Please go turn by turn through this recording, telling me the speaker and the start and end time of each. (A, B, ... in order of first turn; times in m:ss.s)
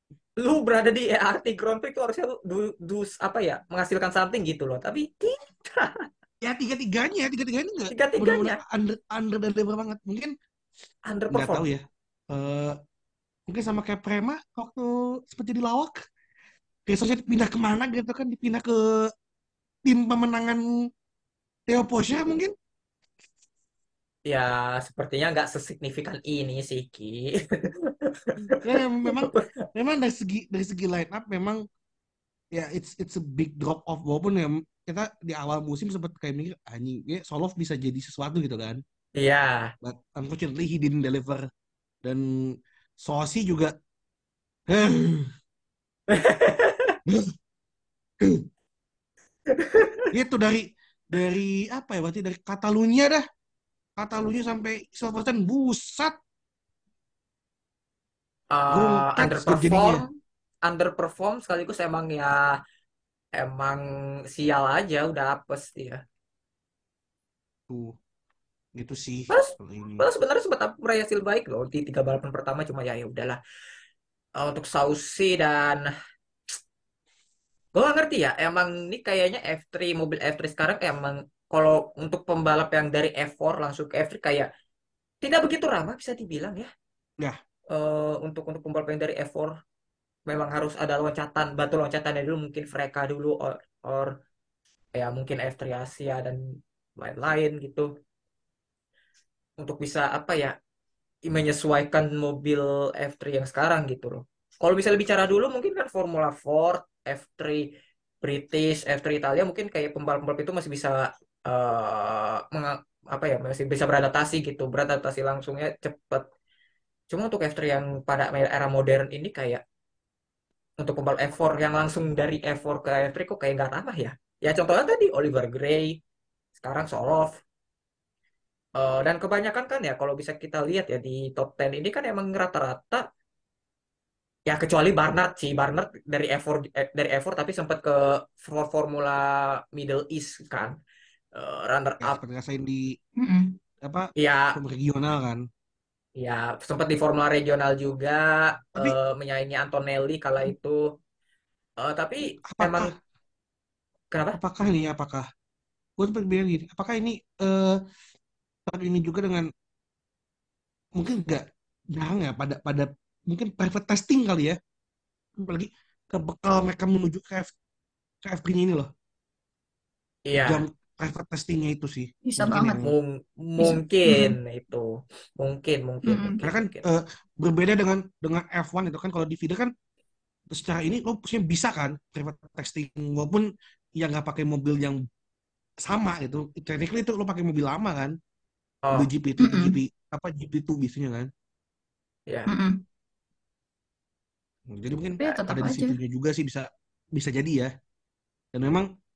0:00.4-0:06.1 A
0:06.4-0:10.4 B
0:07.9-0:08.6 A
0:11.1-0:11.7 A
0:11.3-0:12.8 B
0:13.5-0:16.0 B
0:16.9-0:19.1 B
0:19.9-0:20.6 B
0:21.7-0:22.5 B
0:24.3-0:29.5 A
0:28.6-0:31.6 B
0:32.5-0:38.8 B
0:39.2-0:39.7 A
0:39.8-0:41.5 B
0:42.0-0:43.7 B
0:44.7-0:45.3 B
0:46.1-0:47.0 A
0:47.1-0:47.3 B
0:49.5-0:50.1 A
0:50.1-0:53.2 B
0:54.0-0:56.2 B
0:58.5-1:00.1 A
0:58.7-1:00.0 B
1:00.7-1:02.6 A
1:03.4-1:06.0 A
1:07.7-1:08.0 B
1:08.8-1:10.0 B
1:09.3-1:13.4 A
1:14.4-1:15.9 A
1:17.8-1:24.5 A
1:25.2-1:26.7 A
1:27.7-1:29.5 A
1:30.3-1:34.1 A
1:35.0-1:37.9 A
1:39.6-1:40.5 A
1:41.3-1:47.7 A
1:48.2-1:56.2 A
1:57.1-1:59.6 A
2:00.8-2:06.0 A
2:06.6-2:07.3 A
2:08.8-2:13.0 A
2:14.5-2:20.8 A
2:21.4-2:22.2 A
2:22.0-2:23.0 B
2:23.2-2:23.6 C
2:23.8-2:25.4 B
2:24.2-2:24.6 A
2:26.2-2:30.8 A
2:31.8-2:32.9 A
2:32.5-2:32.9 B
2:34.1-2:34.4 A
2:34.3-2:35.3 B
2:36.0-2:37.8 B
2:38.7-2:39.5 B
2:41.0-2:44.6 B
2:45.4-2:47.5 B
2:48.2-2:48.9 B
2:50.3-2:50.6 A
2:50.5-2:53.0 B
2:52.2-2:52.8 C
2:52.8-2:56.8 A
2:53.6-2:54.4 C
2:56.1-2:56.4 C
2:56.4-2:59.7 B
3:00.5-3:05.0 B
3:05.8-3:08.2 B
3:08.9-3:11.3 B
3:09.4-3:09.8 C
3:12.5-3:12.8 C
3:14.7-3:17.7 B
3:15.2-3:16.0 C
3:18.5-3:18.9 B